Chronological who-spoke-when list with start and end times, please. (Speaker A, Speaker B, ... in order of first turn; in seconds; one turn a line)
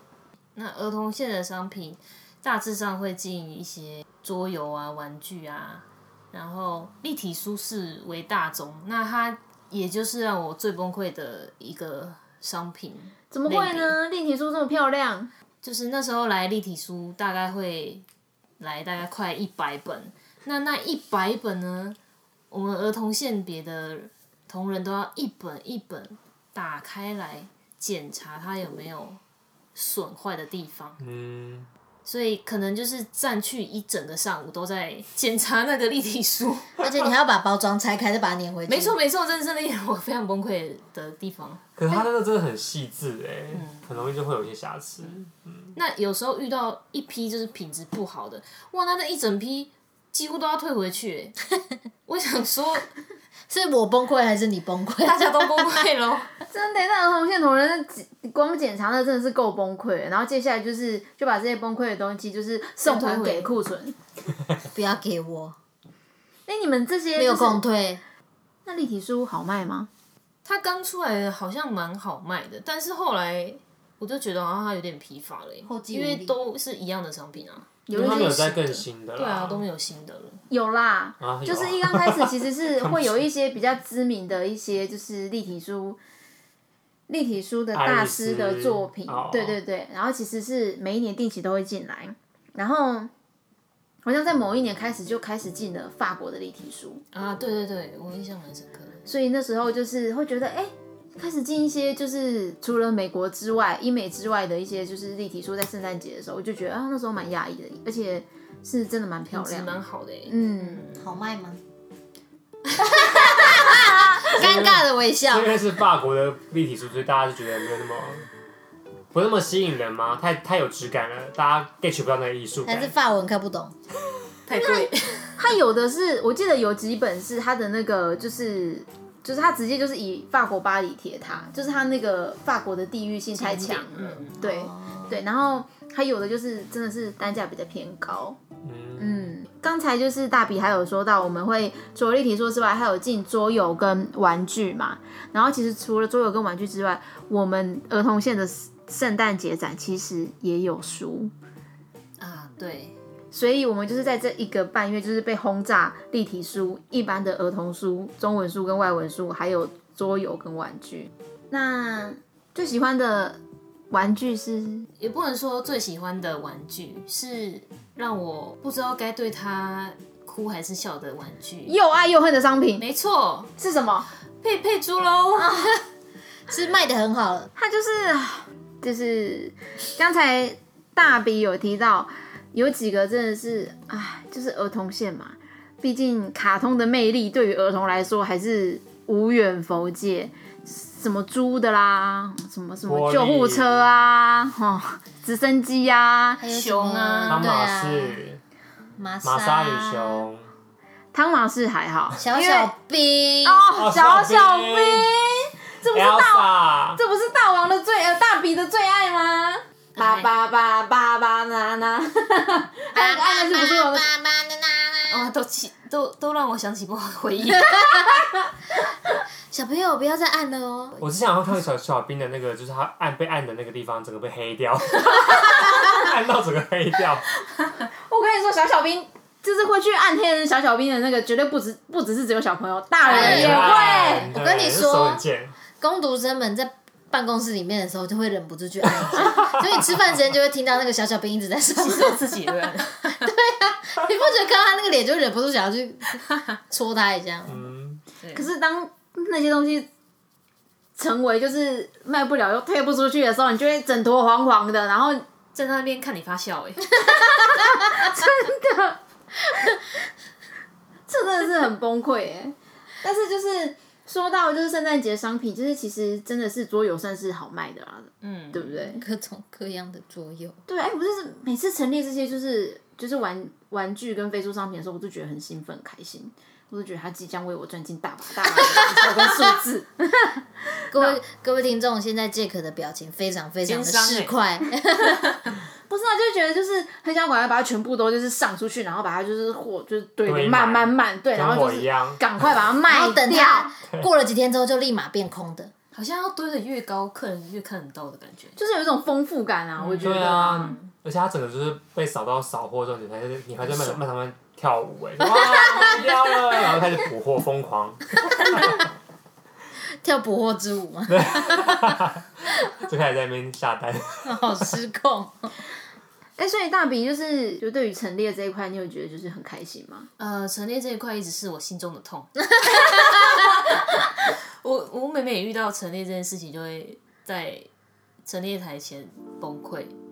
Speaker A: 0.6-14.0
Speaker B: 13.3-15.3
Speaker A: 15.6-18.1
Speaker A: 18.6-22.0
Speaker A: 22.5-29.2
Speaker A: 29.8-31.0
Speaker C: 31.0-31.7
Speaker A: 32.0-37.1
Speaker D: 36.8-39.0
Speaker A: 38.7-41.6
Speaker C: 41.8-45.8
Speaker A: 43.5-44.0
Speaker A: 45.8-51.4
Speaker A: 52.1-52.9
Speaker D: 53.5-55.8
Speaker A: 55.0-56.3
Speaker B: 56.5-64.0
Speaker A: 62.8-63.5
Speaker D: 64.7-65.6
Speaker B: 66.5-67.6
Speaker D: 67.2-68.0
Speaker B: 68.7-69.9
Speaker A: 70.5-80.4
Speaker D: 75.7-76.3
Speaker B: 77.9-78.5
Speaker C: 77.9-79.7
Speaker B: 80.5-86.0
Speaker C: 81.2-83.2
Speaker B: 87.1-93.1
Speaker C: 87.7-89.6
Speaker B: 94.0-97.0
Speaker A: 97.1-99.1
Speaker B: 99.1-109.7
Speaker A: 109.3-111.1
Speaker B: 110.3-110.8
Speaker D: 110.9-111.6
Speaker A: 112.7-113.9
Speaker D: 112.8-115.5
Speaker C: 114.3-118.3
Speaker C: 119.1-122.9
Speaker D: 122.7-123.7
Speaker A: 124.5-125.5
Speaker B: 124.6-138.4
Speaker A: 133.3-134.4
Speaker D: 134.4-135.2
Speaker C: 138.6-139.3
Speaker B: 139.0-151.3
Speaker A: 152.2-153.0
Speaker B: 153.3-164.9
Speaker A: 165.0-171.8
Speaker B: 171.7-172.8
Speaker A: 172.8-173.5
Speaker B: 173.6-174.1
Speaker A: 174.4-175.7
Speaker D: 176.5-177.5
Speaker B: 177.6-196.4
Speaker C: 192.9-193.9
Speaker D: 196.4-198.2
Speaker A: 196.5-197.5
Speaker C: 197.3-198.4
Speaker D: 199.0-200.3
Speaker C: 199.2-200.5
Speaker B: 201.1-202.7
Speaker D: 202.2-203.6
Speaker B: 203.4-214.1
Speaker C: 203.8-205.1
Speaker C: 205.9-207.0
Speaker A: 210.0-210.3
Speaker D: 212.9-215.3
Speaker A: 215.1-218.1
Speaker D: 217.7-218.2
Speaker D: 219.5-221.0
Speaker C: 221.0-227.3
Speaker B: 228.1-234.3
Speaker A: 233.0-233.7
Speaker D: 233.1-235.2
Speaker C: 233.1-235.5
Speaker D: 235.8-242.2
Speaker C: 239.0-240.0
Speaker A: 241.7-243.3
Speaker D: 243.2-247.7
Speaker C: 247.5-248.0
Speaker A: 248.2-248.5
Speaker B: 248.3-249.9
Speaker B: 251.0-255.2
Speaker A: 255.5-257.3
Speaker B: 257.0-259.8
Speaker B: 261.1-269.0
Speaker A: 268.2-269.0
Speaker D: 268.9-270.6
Speaker B: 270.7-281.2
Speaker D: 280.9-285.2
Speaker A: 283.7-284.4
Speaker B: 285.9-293.7
Speaker C: 290.2-292.6
Speaker D: 292.9-295.7
Speaker A: 295.9-298.6
Speaker B: 298.6-300.7
Speaker A: 299.8-300.9
Speaker C: 300.0-308.8
Speaker A: 303.7-303.9
Speaker D: 308.4-308.8
Speaker D: 310.0-311.8
Speaker C: 311.1-314.7
Speaker D: 314.2-315.6
Speaker B: 316.4-320.1
Speaker A: 320.2-327.7
Speaker D: 322.6-323.5
Speaker A: 328.2-329.9